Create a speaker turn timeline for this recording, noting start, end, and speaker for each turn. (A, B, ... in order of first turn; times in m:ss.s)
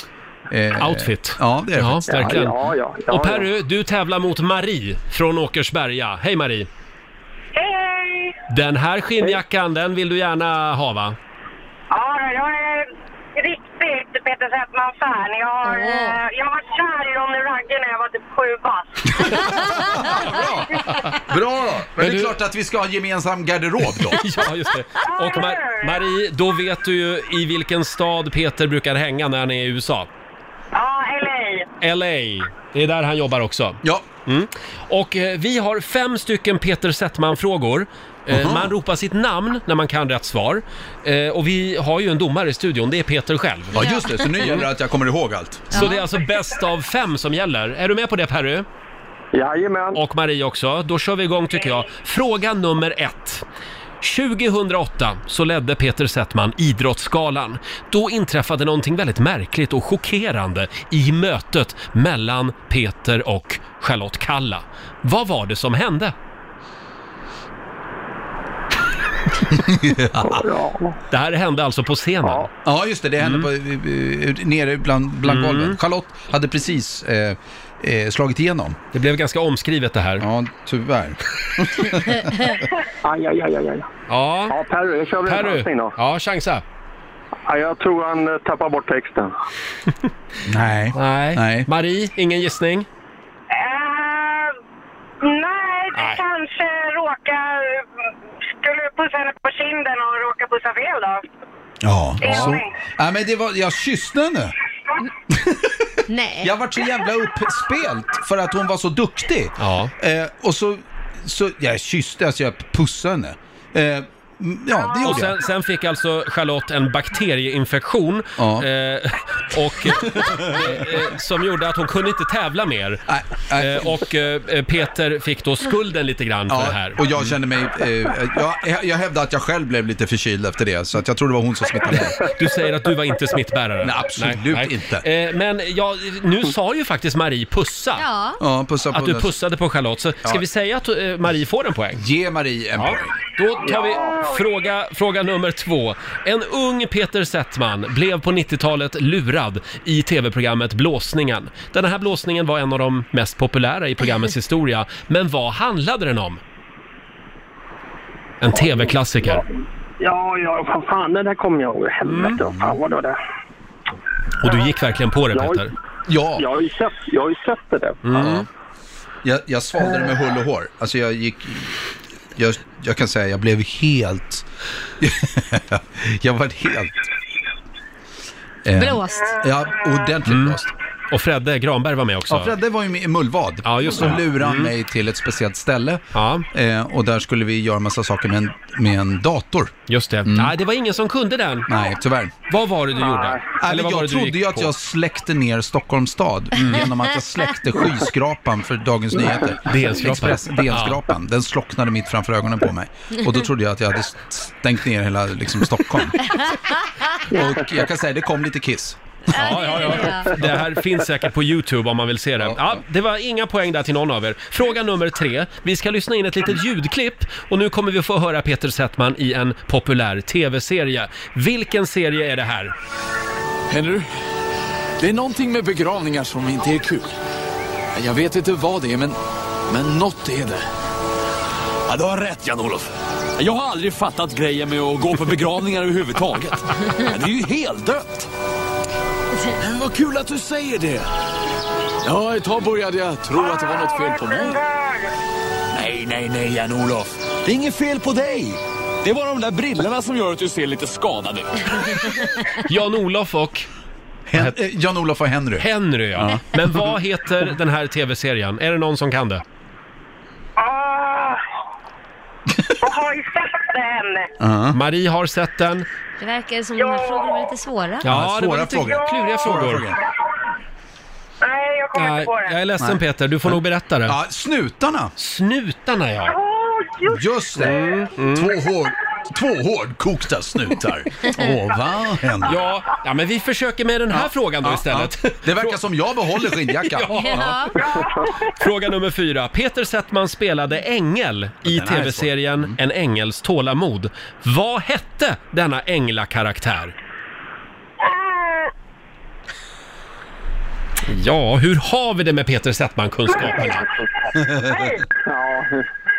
0:00.5-0:02.4 A
0:00.8-0:06.7 B
0:02.1-0:03.5 C
0:07.5-0:08.4 D
0:08.5-0:11.2 B
0:11.9-0:19.2 D
0:15.6-0:16.2 E
0:19.2-0:24.2 A
0:20.1-0:21.2 B
0:22.0-0:22.4 B
0:24.1-0:30.1 B
0:25.1-0:26.0 D
0:30.7-0:31.7 D
0:31.8-0:44.7 B
0:38.3-0:38.7 A
0:43.7-0:45.8 A
0:43.8-0:44.3 E
0:45.7-0:46.0 E
0:45.7-0:48.6 B
0:49.3-0:50.0 C
0:49.9-0:53.4 B
0:54.0-1:06.1 B
1:09.5-1:10.4 A
1:10.2-1:11.0 C
1:11.1-1:12.5 B
1:12.6-1:18.8 A
1:13.2-1:13.5 B
1:15.2-1:15.8 B
1:18.9-1:20.3 B
1:20.2-1:22.4 A
1:23.0-1:23.8 C
1:24.1-1:24.6 B
1:24.5-1:25.9 C
1:25.2-1:26.6 B
1:27.5-1:29.3 C
1:30.4-1:31.7 A
1:30.9-1:32.9 B
1:33.5-1:34.5 D
1:35.2-1:37.8 D
1:35.9-1:36.2 B
1:38.6-1:41.2 D
1:41.8-1:44.5 A
1:42.2-1:42.7 D
1:42.2-1:42.6 B
1:45.3-1:45.7 A
1:46.1-1:46.6 E
1:46.4-1:55.4 A
1:49.6-1:49.9 B
1:55.0-2:07.3 B
1:58.4-1:58.7 A
2:00.0-2:00.8 A
2:03.1-2:04.0 A
2:06.5-2:12.2 A
2:12.2-2:18.0 B
2:13.8-2:15.0 A
2:18.0-2:18.4 E
2:18.4-2:19.3 A
2:18.9-2:22.0 B
2:21.9-2:23.2 A
2:22.8-2:36.4 B
2:23.6-2:24.2 C
2:38.4-2:39.4 B
2:40.0-2:43.2 C
2:42.0-2:42.4 B
2:44.4-2:45.7 B
2:45.3-2:45.6 C
2:46.1-2:46.5 A
2:46.4-2:48.0 C
2:48.0-2:48.5 B
2:49.2-2:51.8 A
2:52.4-2:54.4 A
2:55.0-2:57.1 A
2:58.6-3:00.7 A
2:58.8-2:59.4 E
3:00.2-3:02.5 B
3:02.3-3:10.5 A
3:03.6-3:04.7 B
3:06.1-3:06.5 B
3:09.9-3:11.7 B
3:11.7-3:12.4 A
3:12.5-3:14.7 B
3:13.6-3:26.4 A
3:16.6-3:16.8 B
3:19.6-3:21.0 B
3:27.3-3:29.0 A
3:29.3-3:30.3 E
3:29.3-3:42.8 B
3:32.4-3:32.8 A
3:43.7-3:44.0 F
3:45.0-3:47.0 F
3:48.0-3:49.1 F
3:49.7-3:50.6 F
3:51.9-3:52.9 F
3:53.4-3:58.3 F
3:59.6-4:01.0 F
4:02.1-4:04.6 F
4:03.4-4:05.1 D
4:05.8-4:08.5 F
4:09.3-4:11.4 F
4:12.6-4:13.7 B
4:14.3-4:16.4 A
4:15.6-4:19.4 B
4:20.6-4:21.4 D
4:22.8-4:24.3 D
4:24.4-4:24.8 A
4:24.7-4:25.9 B
4:26.2-4:28.1 E
4:26.8-4:27.5 D
4:28.0-4:29.9 B
4:28.0-4:30.0 A
4:28.8-4:29.3 D
4:31.4-4:32.6 D
4:31.9-4:34.2 B
4:32.8-4:35.1 A
4:35.2-4:36.4 B
4:36.2-4:37.8 D
4:37.0-4:42.6 A
4:37.6-4:38.5 B
4:42.4-4:45.8 B
4:44.1-4:47.5 A
4:46.8-4:47.6 B
4:47.1-4:47.8 E
4:47.8-4:48.2 D
4:48.4-4:56.9 B
4:51.6-4:52.8 A
4:58.0-4:58.7 D
5:01.1-5:03.9 B
5:04.4-5:04.8 A
5:05.2-5:05.8 C